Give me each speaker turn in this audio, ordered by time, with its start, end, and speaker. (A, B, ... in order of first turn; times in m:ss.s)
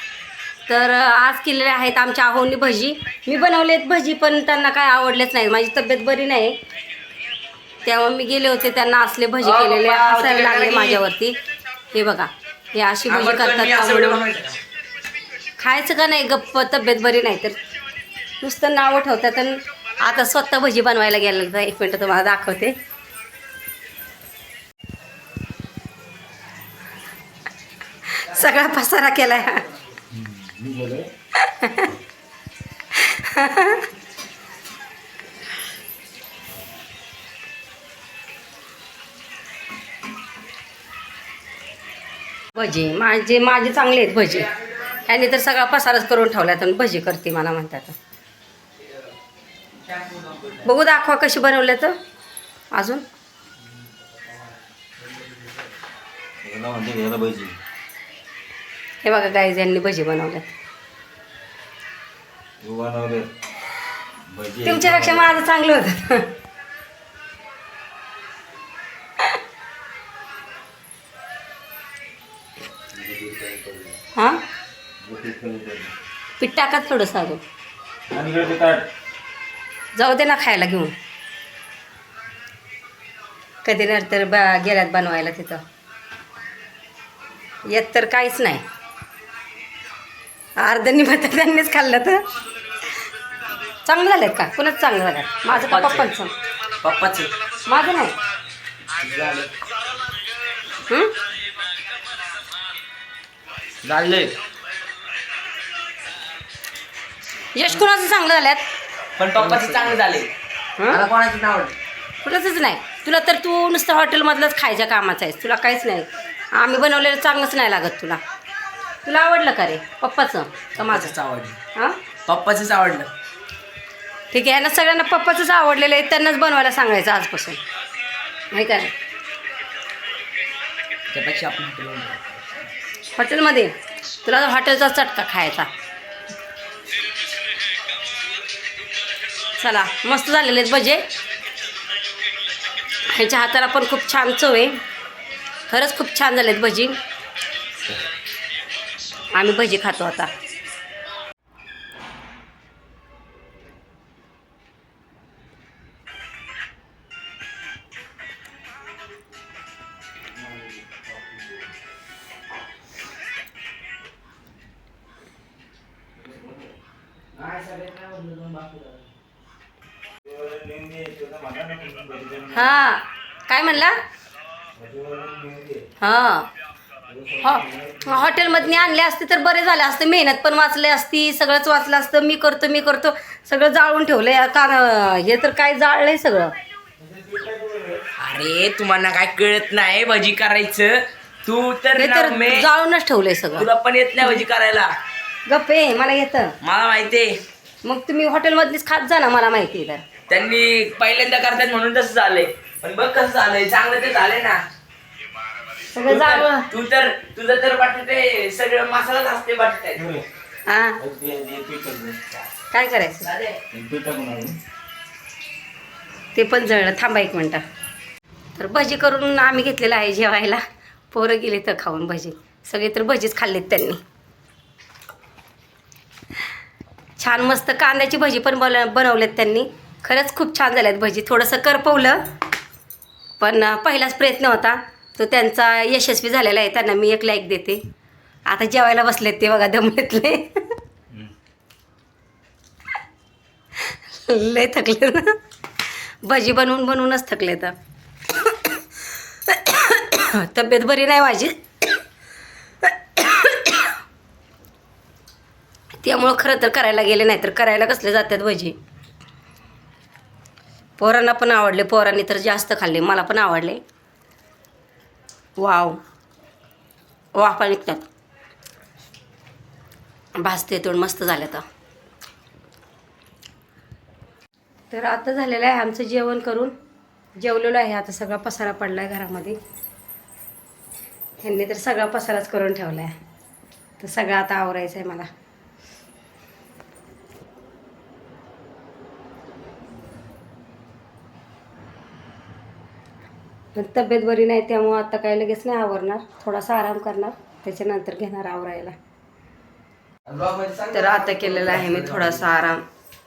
0:00.7-0:06.6 A
0:07.8-0:11.4 A
0:09.4-0:11.0 B
0:11.9-0:14.2 A
0:13.1-0:14.6 B
0:15.6-0:17.6 A
0:18.4-0:22.8 A
0:28.0-0:29.7 A
0:30.1-0:31.1 C
0:31.4-0:31.9 A
0:32.9-0:33.9 A
0:42.6-0:47.9 A
0:49.9-0:50.6 B
0:50.6-0:52.0 A
0:52.7-0:53.0 A
0:56.4-0:57.6 C
0:59.0-1:00.5 A
1:02.6-1:03.3 C
1:04.3-1:05.4 C
1:04.6-1:06.3 A
1:12.9-1:14.0 C
1:14.2-1:14.4 A
1:15.0-1:15.9 C
1:16.4-1:17.4 A
1:18.1-1:18.9 C
1:20.0-1:20.9 A
1:23.6-1:25.6 A
1:27.7-1:28.6 A
1:30.6-1:32.2 A
1:33.8-1:36.3 A
1:35.5-1:36.1 B
1:36.8-1:37.3 B
1:37.7-1:38.2 A
1:39.0-1:39.5 B
1:40.9-1:41.1 A
1:43.8-1:44.3 B
1:47.5-1:48.6 A
1:49.2-1:50.3 B
1:50.8-1:51.0 A
1:50.9-1:51.8 B
1:52.2-1:58.2 A
1:59.0-2:01.2 A
2:00.8-2:01.6 B
2:02.3-2:03.1 B
2:04.3-2:07.6 A
2:08.5-2:08.9 A
2:11.1-2:12.4 B
2:13.2-2:13.7 A
2:14.2-2:15.7 A
2:19.6-2:21.1 A
2:23.1-2:24.8 A
2:25.7-2:27.0 A
2:29.3-2:30.3 A
2:40.5-2:41.4 C
2:47.4-2:48.9 B
2:50.2-2:52.8 C
2:52.5-2:54.0 A
2:54.8-2:55.8 C
2:56.0-2:56.5 A
2:57.1-2:58.8 C
2:57.4-3:06.5 A
3:07.0-3:08.0 C
3:08.2-3:12.7 B
3:12.0-3:13.7 A
3:13.6-3:14.9 B
3:15.5-3:16.6 A
3:16.6-3:17.3 B
3:17.8-3:20.0 A
3:20.3-3:24.6 B
3:25.9-3:26.7 A
3:26.0-3:30.0 B
3:29.9-3:30.2 C
3:30.7-3:31.0 A
3:31.0-3:32.2 C
3:32.7-3:33.3 A
3:33.2-3:33.6 B
3:33.7-3:34.6 C
3:36.3-3:37.6 A
3:38.6-3:44.0 A
3:47.2-3:52.2 A
3:53.4-3:57.8 A
3:58.5-4:00.8 A
4:03.8-4:05.4 A
4:06.2-4:07.8 A
4:08.3-4:12.0 A
4:12.8-4:14.0 A
4:16.0-4:18.7 A
4:21.0-4:23.8 A
4:25.6-4:26.0 A
4:27.3-4:28.0 A
4:30.4-4:31.6 A
4:34.9-4:36.7 A
4:37.4-4:39.6 A
4:41.4-4:43.1 A
4:44.0-4:45.3 A
4:53.7-4:58.9 A
5:00.3-5:02.5 B
5:00.9-5:02.8 A